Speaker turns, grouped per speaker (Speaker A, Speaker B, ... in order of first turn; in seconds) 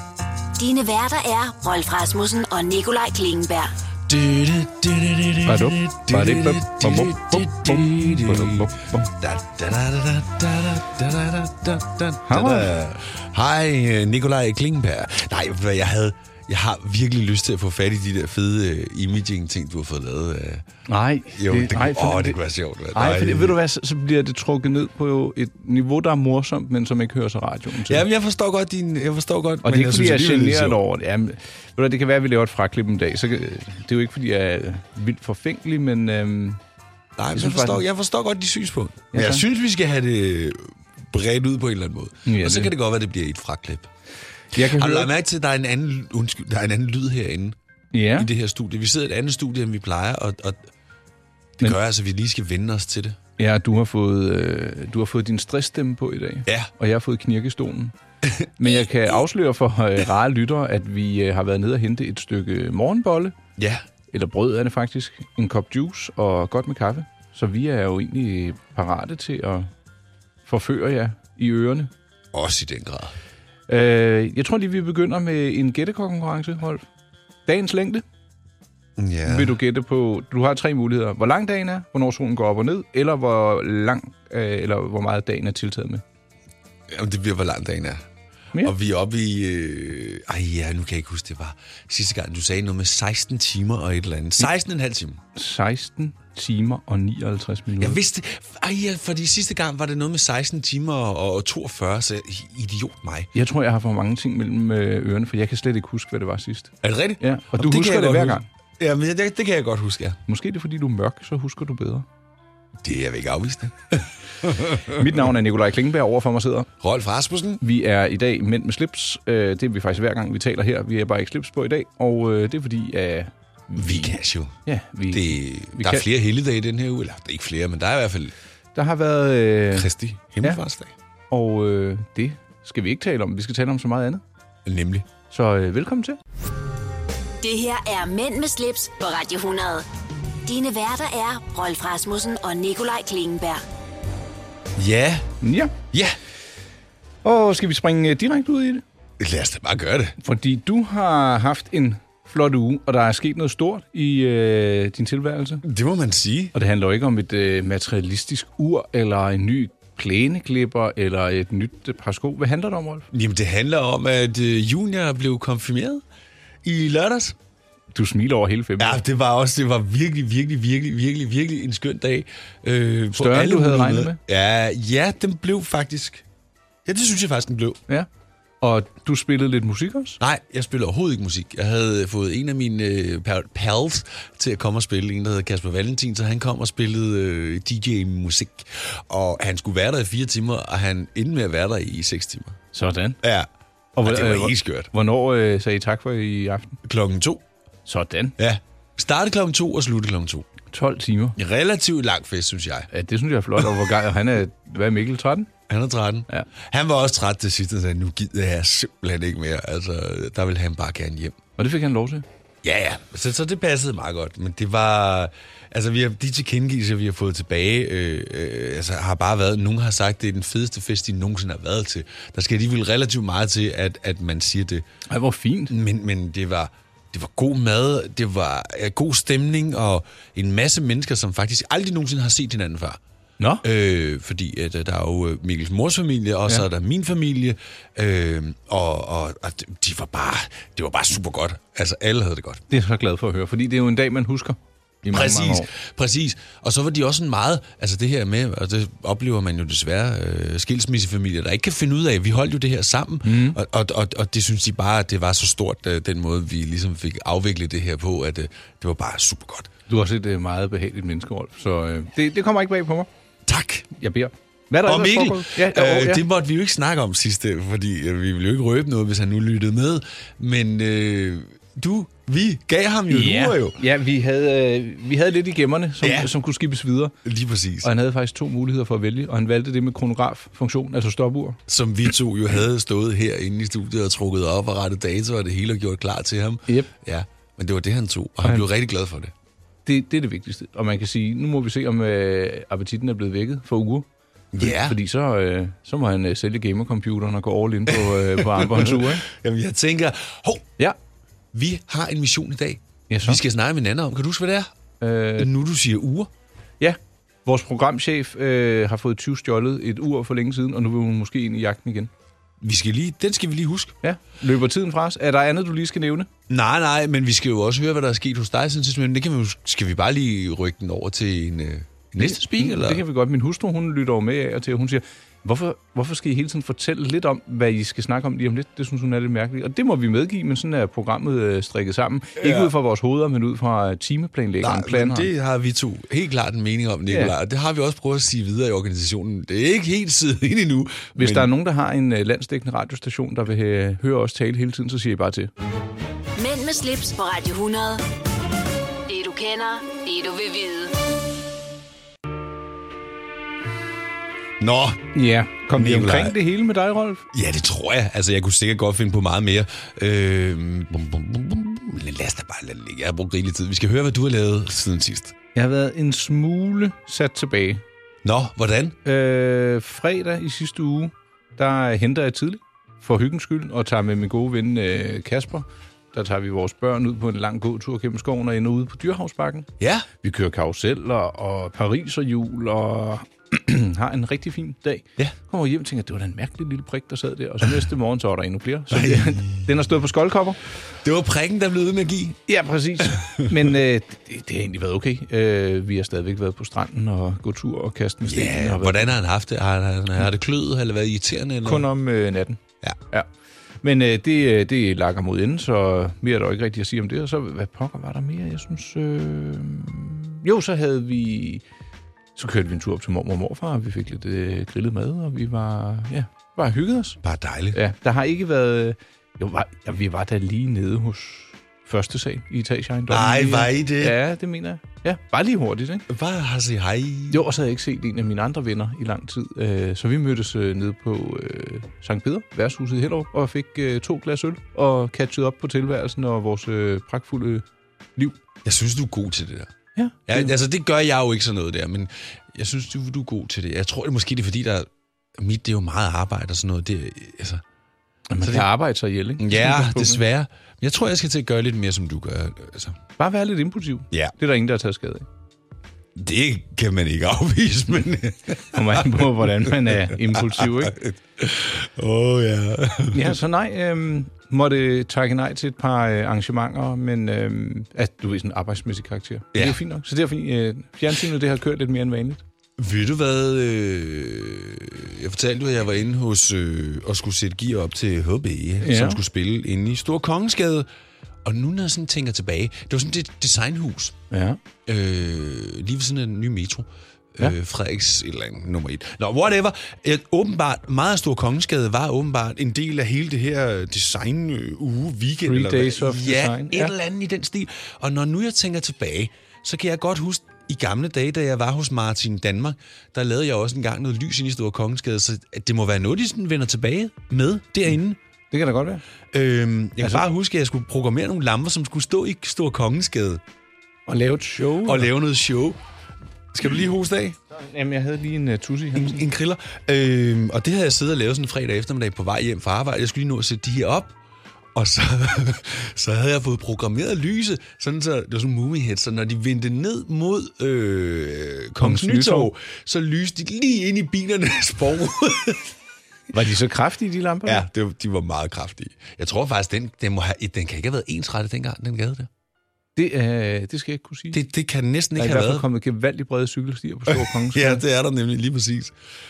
Speaker A: 0.6-3.7, 137.4-139.9, 140.5-143.6, 346.4-348.0, 349.1-350.9
Speaker B: 4.1-20.7, 21.3-23.6, 27.9-30.8, 37.2-43.9, 44.6-47.6, 48.1-50.7, 51.6-53.2, 63.6-63.8, 72.3-73.2, 79.0-79.6, 86.9-88.0, 88.6-95.2, 97.8-103.3, 106.8-110.2, 112.8-115.0, 116.8-117.6, 123.8-124.5, 125.1-128.3, 129.7-130.9, 134.7-135.1, 144.8-145.3, 145.9-146.2, 149.2-150.2, 155.6-156.5, 163.1-166.0, 166.6-167.4, 168.8-176.2, 176.9-177.8, 180.2-192.6, 193.2-193.5, 194.0-194.9, 196.8-197.4, 198.4-200.5, 201.4-202.9, 205.7-211.4, 212.6-224.9, 225.7-233.0, 233.6-242.6, 245.1-259.7, 263.5-263.9, 264.8-273.8, 276.0-276.3, 277.2-277.9, 281.7-289.3, 294.5-295.0, 298.4-300.7, 301.5-304.7, 305.4-306.3, 312.6-314.0, 316.5-323.0, 332.4-332.7, 334.6-341.5, 354.6-355.0, 355.8-356.4, 357.3-365.4, 368.2-369.0, 379.8-380.1, 388.9-389.7, 391.0-392.4, 393.0-393.7, 398.2-401.9, 417.2-417.8, 423.1-424.2, 426.1-427.4, 438.6-439.7, 440.3-447.6, 448.4-448.7, 449.4-453.0, 456.1-463.4, 469.5-469.8, 472.8-480.9, 481.4-484.2, 484.9-508.2, 509.3-513.4, 514.6-515.8, 516.5-517.4, 519.0-524.1, 524.8-535.7, 537.5-542.3, 544.3-545.7, 547.1-548.9
Speaker C: 5.4-9.1, 12.3-13.0, 20.9-22.4, 22.9-28.1, 29.6-36.6, 37.4-37.8, 39.1-39.5, 42.3-42.7, 44.5-45.1, 47.9-48.3, 53.4-58.0, 58.6-63.4, 64.1-69.7, 70.5-71.9, 73.7-76.8, 77.5-78.0, 79.3-86.0, 95.3-98.0, 103.3-108.5, 110.3-112.1, 114.9-116.7, 117.6-126.0, 128.8-129.9, 131.3-134.2, 135.3-136.2, 145.4-145.7, 147.2-148.8, 150.2-155.6, 156.5-163.1, 167.9-169.0, 173.1-174.2, 178.6-180.2, 192.7-193.2, 194.0-196.8, 197.9-198.4, 200.7-201.4, 202.9-205.5, 211.6-212.2, 225.1-225.7, 242.7-245.7, 253.2-253.6, 259.9-263.1, 264.0-266.3, 273.1-277.2, 277.8-281.6, 289.9-294.1, 294.6-299.3, 303.1-303.4, 305.0-305.5, 306.8-312.1, 314.0-316.3, 322.2-335.3, 337.1-337.3, 341.2-345.5, 355.1-357.2, 365.6-367.8, 369.1-379.7, 380.2-390.6, 392.5-399.1, 401.6-403.3, 403.8-411.6, 412.4-417.2, 417.7-426.1, 427.3-438.4, 440.0-440.5, 448.3-450.2, 453.2-455.3, 458.7-461.0, 463.1-472.4, 478.8-479.2, 484.3-484.6, 495.4-496.9, 508.5-509.0, 514.1-515.1, 517.5-519.2, 531.8-532.5, 536.3-537.7, 543.0-544.4, 545.2-547.8